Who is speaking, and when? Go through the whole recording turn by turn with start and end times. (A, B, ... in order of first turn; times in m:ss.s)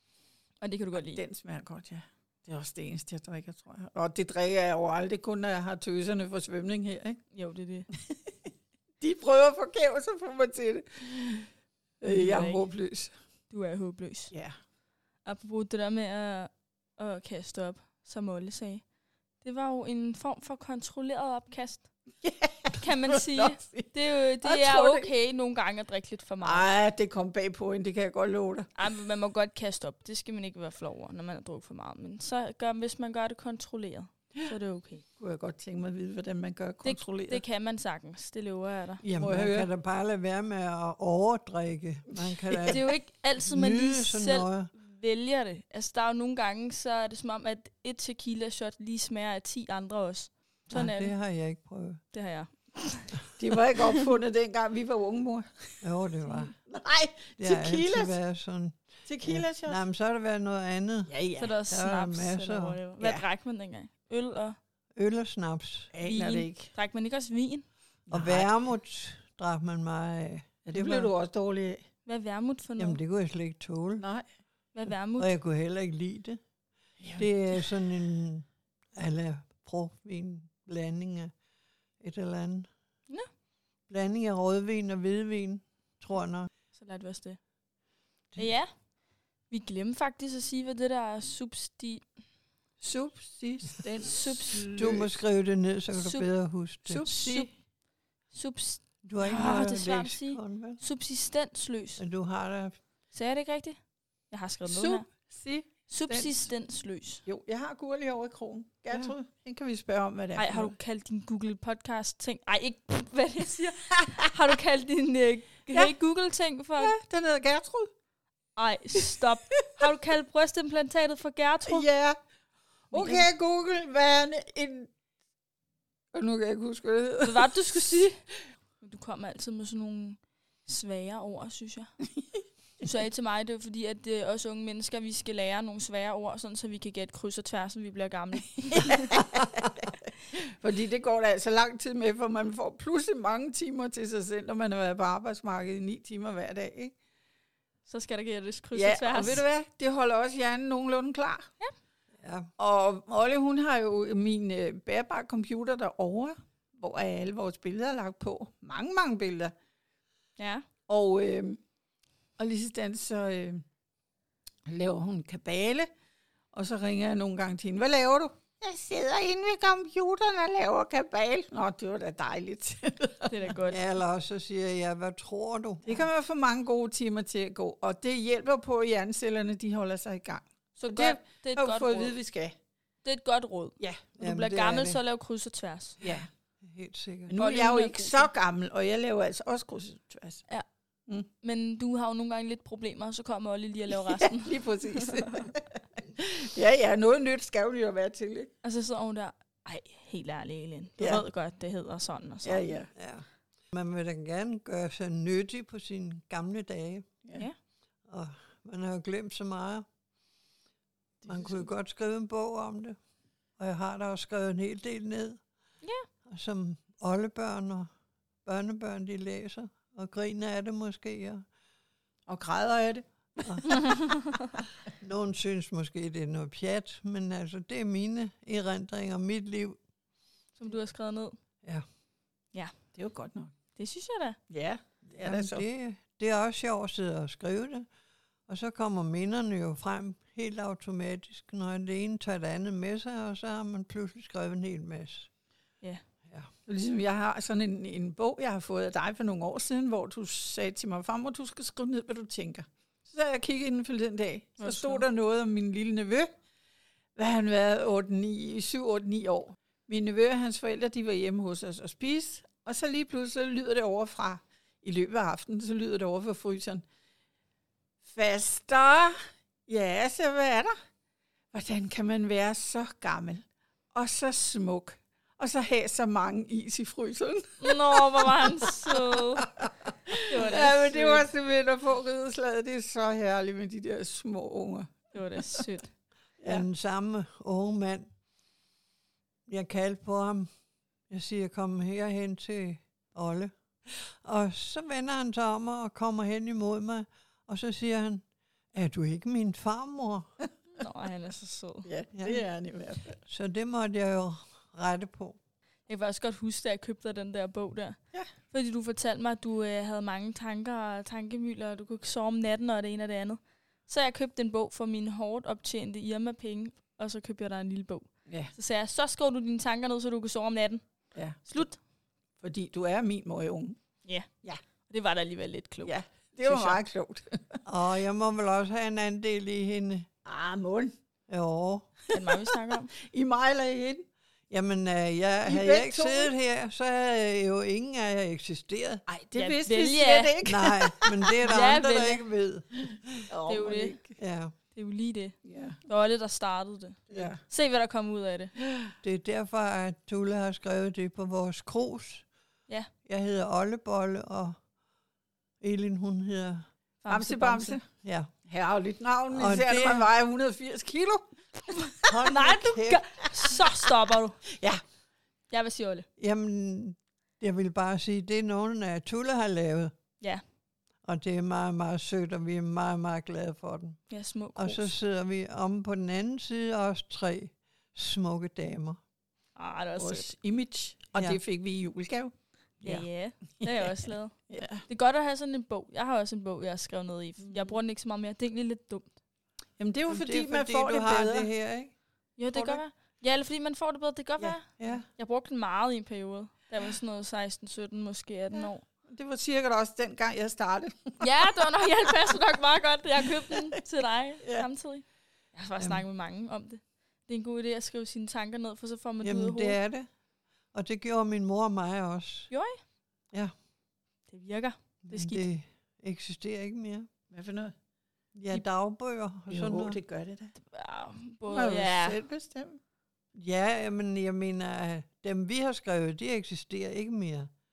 0:00.6-0:01.2 A
0:00.9-0:07.2 B
0:07.3-0:07.9 A
0:09.0-0:11.5 B
0:12.0-0:13.1 B
0:12.0-0:12.6 A
0:13.5-0:14.3 A
0:15.2-0:18.8 A
0:19.4-0:21.9 A
0:22.2-0:25.1 B
0:22.8-0:26.7 A
0:26.4-0:28.7 B
0:28.8-0:35.0 A
0:35.2-0:37.4 B
0:36.8-0:39.0 A
0:39.0-0:42.8 C
0:39.1-0:39.7 B
0:42.2-0:42.8 B
0:42.7-0:51.1 A
0:43.4-0:44.7 C
0:50.7-0:52.0 C
0:52.1-0:53.3 A
0:53.4-0:55.8 B
0:55.8-0:56.5 C
0:56.6-0:58.2 B
0:57.4-1:01.1 C
0:59.0-0:59.8 B
1:01.1-1:01.5 B
1:01.4-1:04.6 A
1:01.7-1:02.8 C
1:03.0-1:03.2 B
1:04.9-1:05.9 C
1:05.9-1:06.7 B
1:06.0-1:07.6 A
1:08.1-1:08.5 B
1:08.1-1:11.1 C
1:10.6-1:11.8 B
1:12.0-1:13.0 A
1:12.8-1:14.0 C
1:14.7-1:15.3 A
1:15.2-1:16.4 C
1:17.0-1:17.3 B
1:17.2-1:21.3 C
1:22.0-1:22.7 C
1:23.9-1:26.5 C
1:26.7-1:27.4 A
1:28.4-1:28.7 A
1:29.5-1:32.0 A
1:32.8-1:35.1 B
1:34.0-1:34.8 A
1:34.8-1:37.1 C
1:35.9-1:36.3 A
1:36.9-1:37.5 B
1:37.0-1:37.6 A
1:38.3-1:42.0 A
1:39.0-1:40.8 C
1:42.0-1:42.8 C
1:43.1-1:45.0 A
1:44.6-1:46.4 B
1:45.9-1:47.2 A
1:47.2-1:50.7 B
1:50.4-1:56.9 A
1:56.8-1:57.9 B
1:58.6-2:01.9 A
2:01.7-2:02.2 B
2:02.9-2:04.9 B
2:02.9-2:03.3 A
2:06.1-2:07.5 B
2:07.2-2:08.2 A
2:08.8-2:11.9 A
2:12.8-2:19.2 A
2:18.8-2:19.8 B
2:20.3-2:26.9 B
2:27.9-2:29.4 A
2:28.7-2:31.5 B
2:32.2-2:32.5 C
2:32.6-2:39.5 B
2:40.4-2:40.6 A
2:40.9-2:41.6 B
2:42.4-2:43.6 B
2:44.7-2:45.9 B
2:46.5-2:53.5 B
2:53.3-2:53.8 A
2:53.7-2:56.0 C
2:55.8-3:02.5 B
3:00.8-3:02.1 A
3:03.0-3:06.0 A
3:04.2-3:05.0 C
3:06.0-3:06.3 B
3:06.6-3:07.4 C
3:07.3-3:10.4 B
3:07.4-3:08.3 A
3:11.4-3:15.5 A
3:14.0-3:18.5 B
3:18.6-3:22.7 A
3:21.0-3:21.2 B
3:22.4-3:22.9 B
3:22.9-3:27.1 C
3:28.1-3:29.8 C
3:31.2-3:33.0 C
3:33.6-3:35.4 C
3:36.2-3:37.9 C
3:38.4-3:41.4 C
3:42.3-3:44.0 B
3:45.0-3:49.8 C
3:50.6-3:51.4 A
3:52.9-3:53.5 B
3:53.8-3:54.4 A
3:54.5-3:55.6 B
3:55.2-3:57.9 C
3:58.5-4:05.3 C
4:06.7-4:16.3 B
4:14.6-4:15.0 A
4:17.2-4:26.8 B
4:28.0-4:30.7 B
4:31.5-4:45.6 B
4:37.6-4:39.5 A
4:40.2-4:41.3 A
4:45.1-4:45.9 A
4:46.4-4:46.6 B
4:46.4-4:48.1 C
4:49.5-4:50.5 C
4:51.1-5:00.3 C
5:00.8-5:01.9 A
5:01.8-5:03.2 B
5:02.1-5:02.4 C
5:03.2-5:05.4 C
5:05.9-5:20.8 A
5:21.1-5:21.6 B
5:21.5-5:21.7 A
5:22.4-5:23.8 B
5:24.9-5:25.9 A
5:25.8-5:27.6 B
5:26.5-5:26.8 A
5:27.6-5:30.1 C
5:30.2-5:30.9 B
5:31.3-5:31.9 C
5:32.1-5:32.9 A
5:33.0-5:34.1 B
5:34.5-5:39.0 C
5:35.4-5:36.3 B
5:39.1-5:41.4 B
5:39.4-5:40.3 A
5:40.4-5:43.2 C
5:41.4-5:42.2 A
5:42.9-5:44.2 B
5:43.5-5:44.0 A
5:44.2-5:44.5 C
5:44.7-5:48.5 A
5:45.4-5:45.8 B
5:47.1-5:47.4 B
5:49.0-5:52.2 C
5:53.0-5:54.6 C
5:55.6-5:56.6 C
5:57.0-5:57.8 A
5:57.1-5:57.8 B
5:58.0-5:58.3 C
5:58.4-6:01.3 B
5:59.3-6:00.0 C
6:02.1-6:03.0 C
6:02.2-6:04.4 A
6:04.5-6:04.8 B
6:05.5-6:06.1 A
6:06.2-6:09.9 C
6:11.0-6:14.0 C
6:14.1-6:14.9 A
6:14.6-6:19.0 C
6:19.6-6:20.3 A
6:20.0-6:22.3 B
6:21.1-6:21.4 C
6:22.8-6:23.1 C
6:22.8-6:29.1 A
6:23.6-6:24.8 B
6:27.4-6:27.8 B
6:29.8-6:31.5 B
6:30.1-6:31.9 C
6:32.4-6:38.8 A
6:32.5-6:32.8 C
6:34.4-6:35.0 B
6:34.8-6:35.0 C
6:38.5-6:41.5 B
6:41.2-6:49.8 A
6:45.8-6:46.0 C
6:49.2-6:50.1 C
6:50.7-6:52.5 C
6:52.5-6:52.8 A
6:54.3-6:55.4 A
6:55.1-6:57.1 C
6:57.3-6:57.7 B
6:58.3-7:00.0 C
6:59.5-7:00.5 B
7:00.7-7:02.2 A
7:01.4-7:02.8 B
7:03.3-7:07.5 C